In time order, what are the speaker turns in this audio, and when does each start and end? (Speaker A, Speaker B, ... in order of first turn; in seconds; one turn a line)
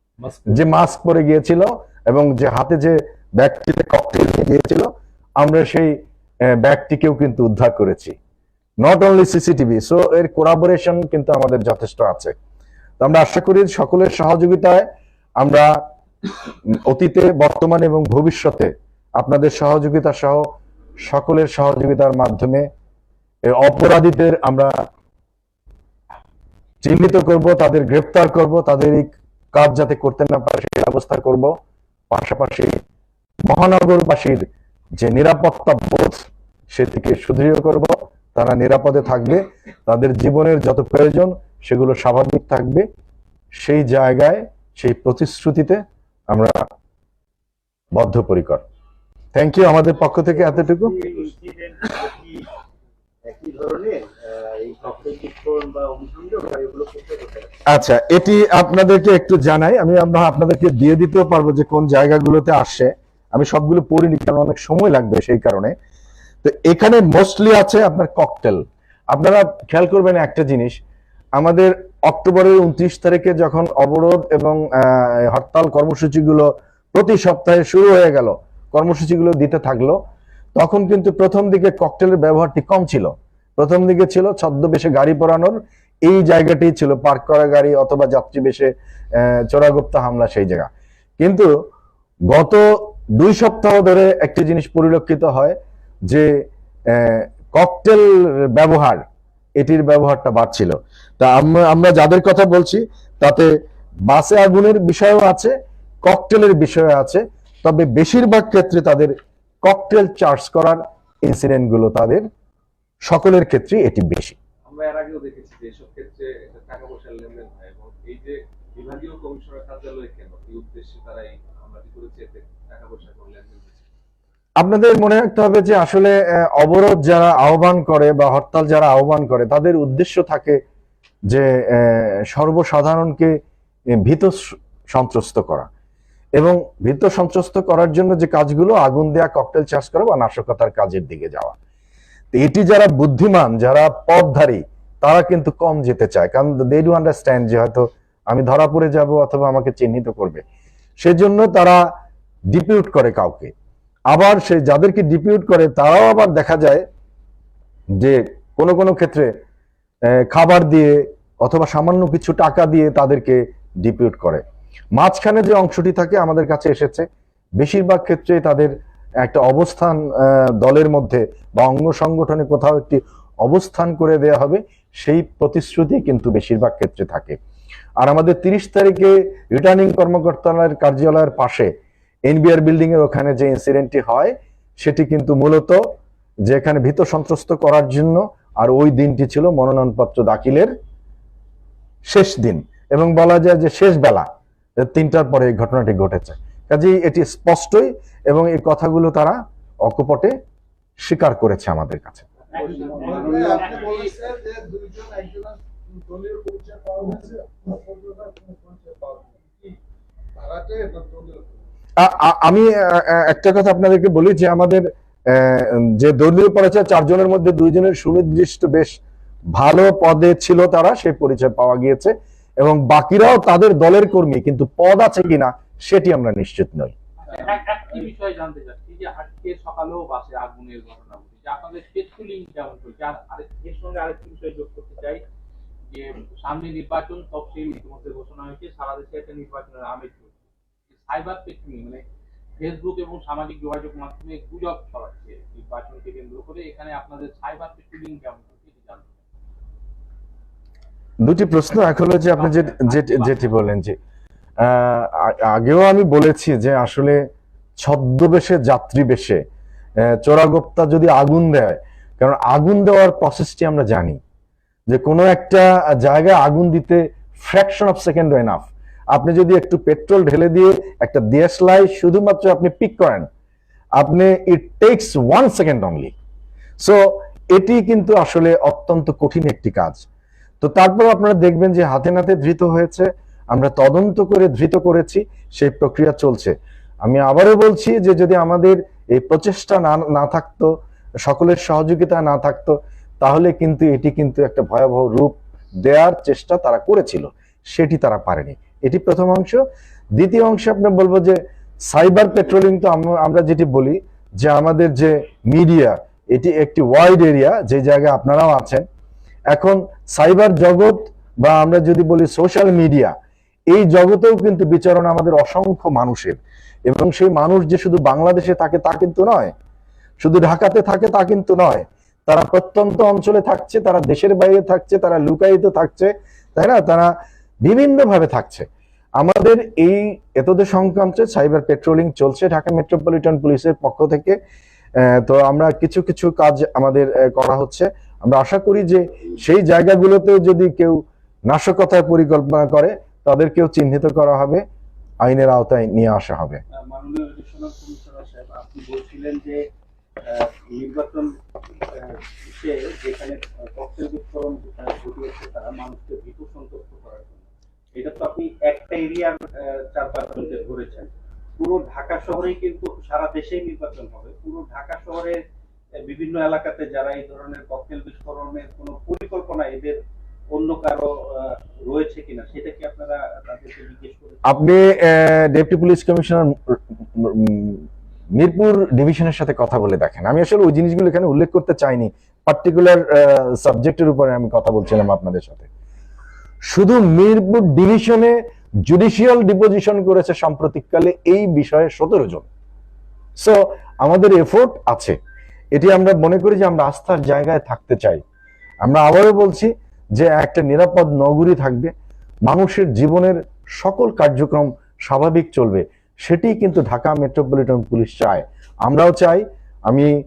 Speaker A: 0.5-6.0
Speaker A: 6.5-8.2
Speaker A: 8.8-12.3
Speaker A: 13.0-14.9
Speaker A: 15.4-15.8
Speaker A: 16.5-20.5
Speaker A: 21.0-22.7
Speaker A: 23.5-24.7
Speaker A: 26.8-31.5
Speaker A: 32.1-32.8
Speaker A: 33.5-34.4
Speaker A: 35.0-42.8
Speaker A: 43.6-46.6
Speaker A: 48.0-48.6
Speaker A: 49.4-50.9
Speaker B: 50.3-52.5
Speaker B: 53.2-57.6
Speaker A: 57.7-65.7
Speaker A: 66.4-70.8
Speaker A: 71.4-80.0
Speaker A: 80.6-91.5
Speaker A: 92.3-95.6
Speaker A: 96.9-99.0
Speaker A: 99.6-103.5
Speaker A: 104.1-109.1
Speaker A: 109.6-112.2
Speaker A: 113.1-114.4
Speaker C: 114.7-123.8
Speaker A: 124.6-130.6
Speaker A: 131.3-133.3
Speaker A: 134.0-135.7
Speaker A: 136.4-141.6
Speaker A: 142.3-150.4
Speaker A: 151.0-151.8
Speaker A: 152.5-153.5
Speaker A: 154.1-156.8
Speaker A: 158.0-159.3
Speaker A: 160.1-164.4
Speaker A: 165.0-167.1
Speaker A: 167.6-177.4
Speaker A: 178.0-181.7
Speaker A: 182.3-185.8
Speaker A: 186.5-190.7
Speaker A: 192.1-194.3
Speaker A: 194.8-200.3
Speaker A: 201.0-202.3
Speaker B: 202.5-203.9
Speaker D: 202.6-204.2
Speaker C: 202.6-209.7
Speaker C: 210.4-211.5
Speaker A: 212.0-219.0
Speaker A: 219.6-226.9
Speaker D: 227.2-235.2
Speaker D: 235.9-240.4
Speaker D: 240.9-242.0
Speaker D: 242.6-249.1
Speaker A: 251.2-254.0
Speaker D: 252.3-253.5
Speaker A: 254.6-257.2
Speaker A: 257.8-259.4
Speaker A: 260.0-264.2
Speaker A: 264.9-273.3
Speaker A: 274.0-276.1
Speaker A: 276.8-280.1
Speaker A: 280.6-290.7
Speaker A: 291.2-299.6
Speaker A: 300.2-308.9
Speaker A: 309.5-313.1
Speaker A: 313.7-319.5
Speaker A: 320.2-327.1
Speaker A: 327.6-328.7
Speaker A: 329.2-334.4
Speaker A: 335.0-344.6
Speaker A: 345.2-346.6
Speaker B: 346.8-349.6
Speaker B: 350.2-351.3
Speaker B: 351.8-365.4
Speaker B: 366.1-370.0
Speaker B: 370.5-374.7
Speaker A: 374.5-385.7
Speaker A: 386.7-392.5
Speaker A: 393.4-395.2
Speaker A: 395.7-398.2
Speaker A: 398.8-401.9
Speaker A: 402.5-410.1